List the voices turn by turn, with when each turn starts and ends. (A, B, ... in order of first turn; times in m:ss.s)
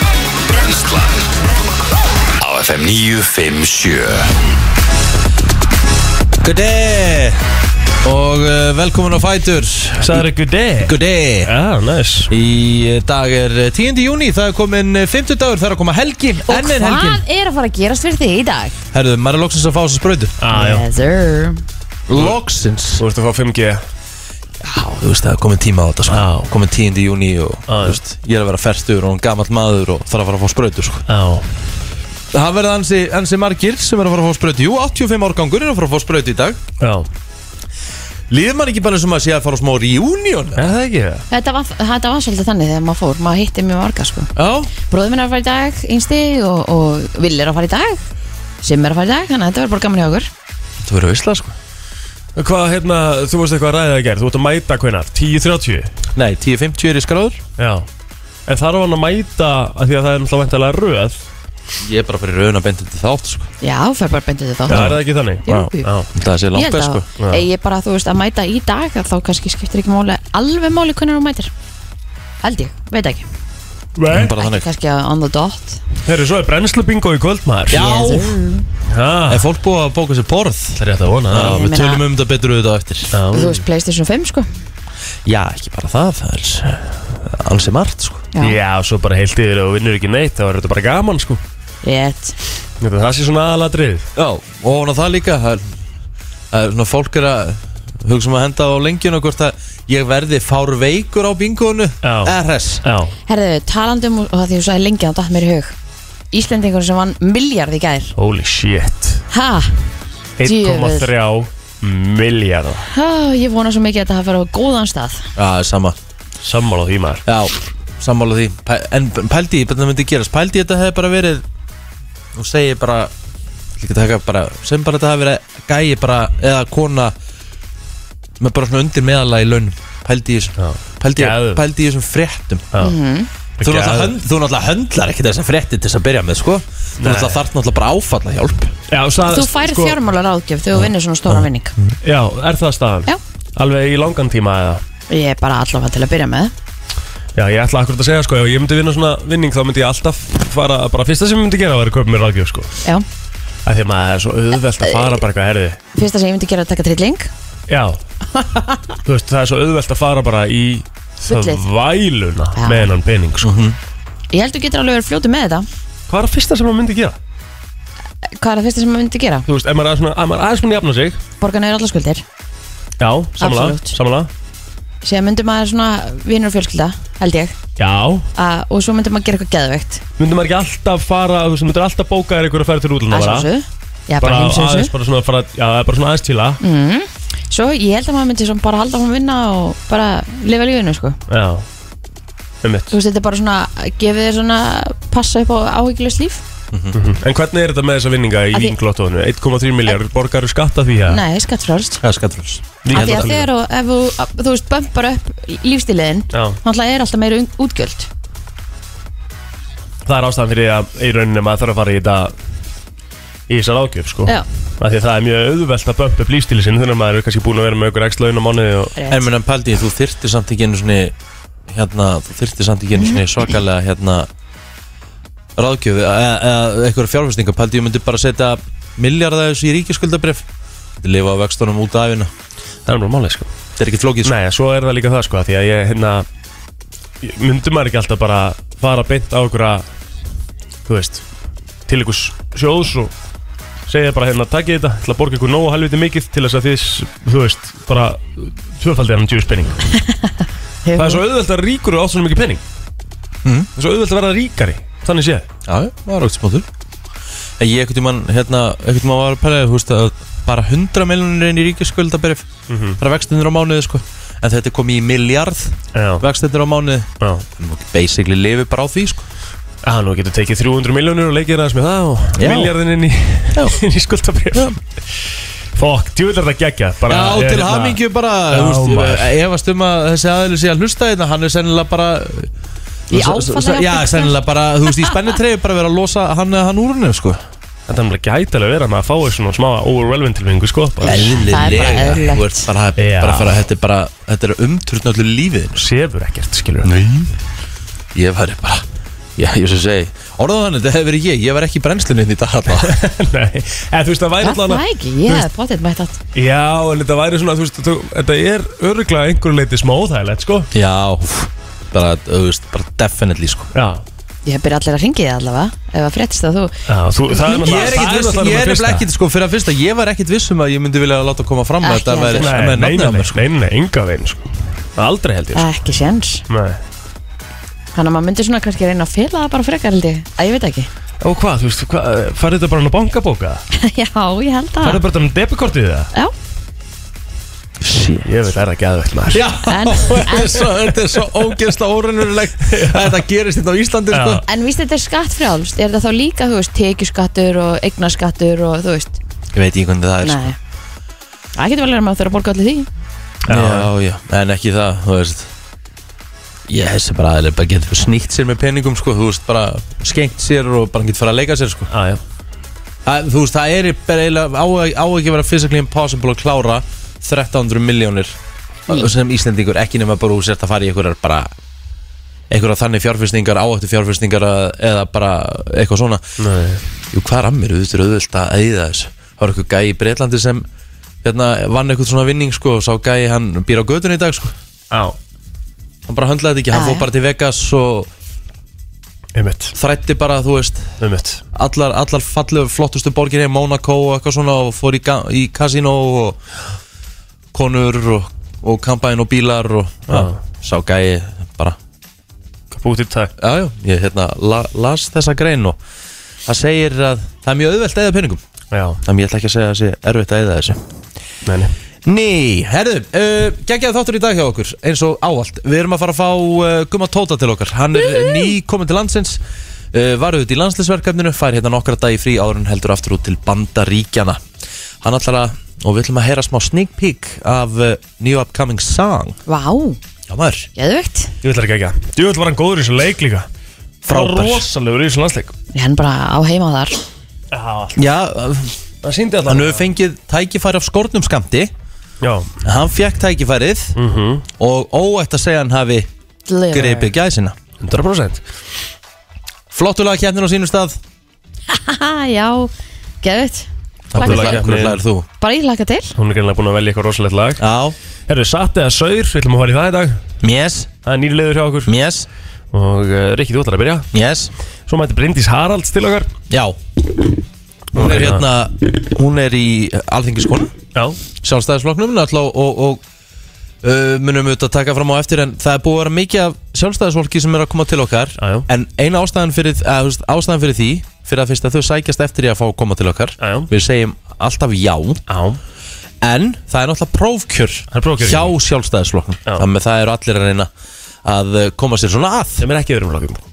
0:00.4-0:01.3 A
0:02.4-0:04.3 A
0:06.4-0:07.4 B
0:08.0-0:10.3 B
0:10.0-0:12.3 C
0:10.8-0:11.5 B
0:12.3-0:17.2 B
0:16.4-0:18.7 D
0:18.9-0:20.4 B
0:20.4-0:20.8 C
0:20.5-0:21.6 D
0:22.1-0:23.0 B
0:23.0-0:23.8 C
0:24.6-0:31.0 B
0:26.1-0:26.5 C
0:27.7-0:28.0 C
0:31.1-0:31.5 C
0:32.3-0:36.6 B
0:36.8-0:37.1 C
0:38.3-0:40.7 B
0:40.6-0:41.2 C
0:41.3-0:44.3 D
0:44.4-0:44.7 B
0:44.9-0:48.0 D
0:48.6-0:50.3 D
0:50.8-0:51.6 B
0:52.4-0:55.9 C
0:56.2-0:57.4 B
0:57.6-0:57.9 C
0:58.5-1:01.2 C
1:01.8-1:03.5 B
1:03.6-1:05.9 D
1:04.7-1:06.1 C
1:04.7-1:07.0 B
1:06.6-1:11.5 D
1:07.2-1:07.4 C
1:12.4-1:13.3 D
1:14.0-1:14.3 C
1:14.1-1:14.7 B
1:14.4-1:15.8 D
1:16.1-1:17.8 C
1:17.7-1:18.4 B
1:17.8-1:18.7 D
1:18.9-1:19.5 C
1:19.3-1:20.8 B
1:20.8-1:21.6 C
1:21.3-1:23.1 B
1:21.4-1:22.0 D
1:23.1-1:23.6 C
1:23.3-1:24.5 D
1:25.3-1:28.3 B
1:28.4-1:31.4 C
1:31.8-1:32.4 D
1:32.8-1:34.1 C
1:34.2-1:35.7 B
1:36.5-1:42.8 B
1:42.0-1:43.2 C
1:43.3-1:45.8 D
1:46.3-1:48.1 D
1:48.2-1:49.2 C
1:49.3-1:49.8 D
1:50.4-1:52.9 C
1:50.4-1:51.1 D
1:52.9-1:55.3 D
1:55.4-1:56.0 B
1:56.4-1:57.2 C
1:57.3-2:01.4 B
2:02.3-2:03.1 B
2:03.8-2:07.2 B
2:08.4-2:12.7 B
2:10.6-2:11.6 C
2:12.8-2:13.3 D
2:13.6-2:14.1 C
2:13.6-2:18.8 B
2:17.0-2:17.4 C
2:18.9-2:20.0 C
2:19.2-2:21.8 D
2:21.3-2:22.0 B
2:22.0-2:24.8 C
2:25.1-2:26.5 D
2:27.4-2:32.7 C
2:33.7-2:35.8 C
2:34.8-2:35.2 D
2:36.0-2:37.3 D
2:37.7-2:38.0 C
2:38.4-2:38.9 D
2:39.0-2:43.5 C
2:41.3-2:41.6 D
2:42.6-2:42.9 D
2:43.4-2:43.8 B
2:44.3-2:45.7 D
2:46.1-2:47.2 C
2:48.4-2:49.5 D
2:49.5-2:51.2 C
2:51.4-2:52.2 D
2:53.0-2:54.3 C
2:53.4-2:54.0 D
2:55.0-2:57.6 D
2:57.8-2:58.3 C
2:58.4-3:00.0 D
3:00.2-3:03.5 C
3:03.1-3:04.9 D
3:04.2-3:06.6 C
3:06.6-3:11.2 D
3:11.3-3:11.6 C
3:12.6-3:12.9 C
3:12.9-3:16.4 D
3:16.7-3:17.0 B
3:16.9-3:21.2 C
3:21.1-3:22.0 D
3:22.0-3:23.3 B
3:22.8-3:23.5 C
3:22.9-3:28.1 D
3:26.3-3:26.6 C
3:30.1-3:32.3 C
3:33.5-3:39.0 C
3:39.0-3:39.2 D
3:39.1-3:41.2 B
3:41.7-3:44.3 B
3:45.6-3:50.5 B
3:51.0-3:52.3 B
3:52.9-3:53.5 C
3:53.8-3:54.4 B
3:54.2-3:56.3 C
3:57.2-3:59.8 C
4:00.9-4:01.2 C
4:01.9-4:03.1 C
4:03.9-4:09.8 C
4:10.8-4:11.2 D
4:11.0-4:12.6 C
4:13.8-4:15.5 C
4:15.7-4:16.7 B
4:17.6-4:22.5 B
4:22.7-4:23.0 C
4:23.0-4:29.2 B
4:25.9-4:26.2 C
4:29.8-4:34.8 C
4:32.4-4:32.8 B
4:33.5-4:33.8 B
4:35.8-4:38.0 C
4:37.1-4:42.5 B
4:38.5-4:39.4 C
4:43.1-4:47.4 B
4:43.1-4:44.4 D
4:47.9-4:51.3 C
4:51.0-4:55.8 B
4:51.0-4:52.7 D
4:53.0-4:53.6 C
4:55.8-4:56.9 C
4:56.8-4:57.3 B
4:58.1-4:58.9 B
4:59.4-5:03.0 B
5:02.8-5:05.5 C
5:04.4-5:06.2 D
5:06.4-5:10.7 C
5:10.7-5:13.7 B
5:13.7-5:14.0 C
5:14.4-5:16.7 D
5:16.9-5:19.0 C
5:17.4-5:17.7 D
5:17.5-5:23.4 B
5:21.8-5:22.5 D
5:22.3-5:25.7 C
5:25.6-5:26.4 D
5:26.5-5:26.8 C
5:28.0-5:30.9 D
5:31.2-5:33.6 C
5:33.7-5:35.0 D
5:34.8-5:36.1 C
5:37.8-5:38.3 B
5:38.2-5:39.5 C
5:39.3-5:44.4 B
5:39.7-5:40.7 D
5:42.7-5:43.2 C
5:44.1-5:44.4 C
5:44.5-5:49.2 D
5:49.5-5:50.5 B
5:50.2-5:50.6 D
5:51.6-5:52.9 D
5:53.5-5:53.9 C
5:53.5-5:55.5 B
5:56.7-6:01.9 B
6:01.9-6:02.2 C
6:03.0-6:08.4 B
6:08.9-6:11.5 B
6:12.5-6:16.2 B
6:16.4-6:16.8 C
6:17.1-6:20.7 B
6:21.2-6:24.6 B
6:24.9-6:25.2 C
6:26.1-6:28.1 B
6:26.7-6:27.1 D
6:29.4-6:29.7 C
6:29.8-6:30.9 B
6:31.0-6:31.4 C
6:31.5-6:36.4 B
6:37.5-6:41.8 B
6:40.1-6:40.4 C
6:42.7-6:43.3 C
6:43.4-6:45.8 B
6:46.5-6:48.4 B
6:48.7-6:49.0 C
6:49.0-6:50.8 B
6:51.5-6:51.7 C
6:52.0-6:59.4 B
6:59.9-7:04.4 B
7:05.0-7:09.4 B
7:09.5-7:10.0 D
7:10.3-7:10.7 B
7:10.8-7:11.3 D
7:11.4-7:13.5 C
7:14.0-7:14.6 B
7:14.1-7:15.5 C
7:15.7-7:17.0 D
7:17.5-7:18.0 C
7:18.0-7:18.8 B
7:19.0-7:19.9 C
7:19.5-7:21.7 B
7:22.2-7:22.5 C
7:22.6-7:24.0 B
7:24.0-7:24.5 C
7:24.6-7:26.1 B
7:26.5-7:27.1 D
7:26.7-7:27.6 B
7:27.8-7:28.4 C
7:29.7-7:31.0 B
7:31.7-7:32.7 D
7:33.2-7:34.6 D
7:34.1-7:35.3 B
7:34.2-7:35.0 C
7:35.4-7:36.1 D
7:36.2-7:37.6 C
7:37.6-7:38.0 B
7:38.3-7:40.2 C
7:40.4-7:40.9 B
7:41.1-7:41.9 C
7:41.9-7:42.3 B
7:42.7-7:44.1 C
7:44.1-7:44.5 B
7:44.9-7:46.3 C
7:46.5-7:46.8 B
7:47.9-7:50.8 B
7:48.0-7:48.4 C
7:51.4-7:53.0 B
7:53.8-8:05.2 B
7:58.4-7:58.7 C
8:03.4-8:03.7 C
8:05.3-8:05.6 C
8:06.2-8:10.7 B
8:07.9-8:08.5 C
8:11.2-8:12.6 B
8:12.6-8:13.4 C